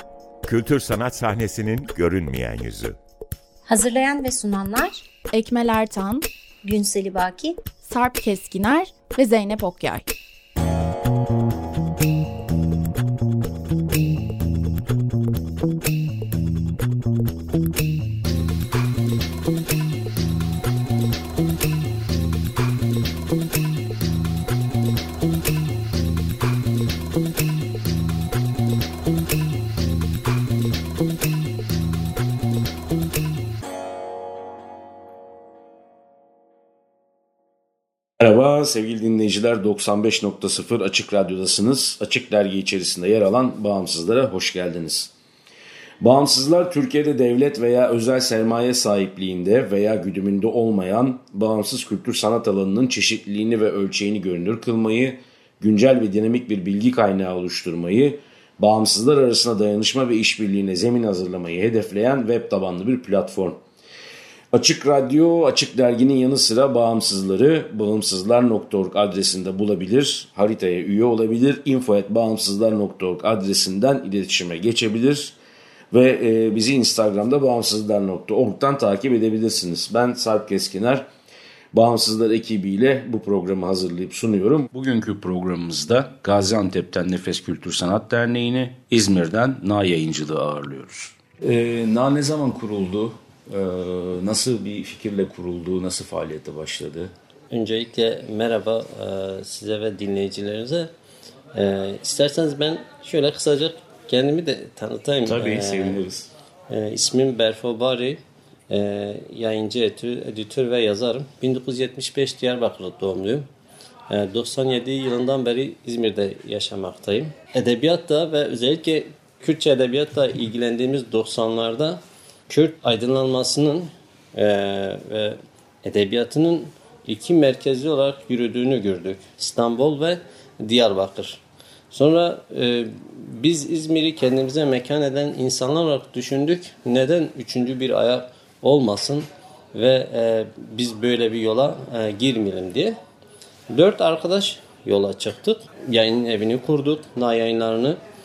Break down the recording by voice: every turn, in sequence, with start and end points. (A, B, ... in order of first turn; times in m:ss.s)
0:00.4-0:03.0 A
0:03.7-0:05.0 B
0:05.3-0:06.3 C
0:06.6-0:07.7 B
0:07.8-0:10.1 C
0:38.2-0:45.1 D
0:46.0-1:03.6 D
1:04.5-1:15.4 D
1:15.9-1:21.1 D
1:21.7-1:37.1 D
1:37.5-1:40.9 E
1:41.5-1:46.0 E
1:45.3-1:46.3 D
1:46.7-1:53.5 E
1:54.1-2:23.0 E
2:23.7-2:28.0 E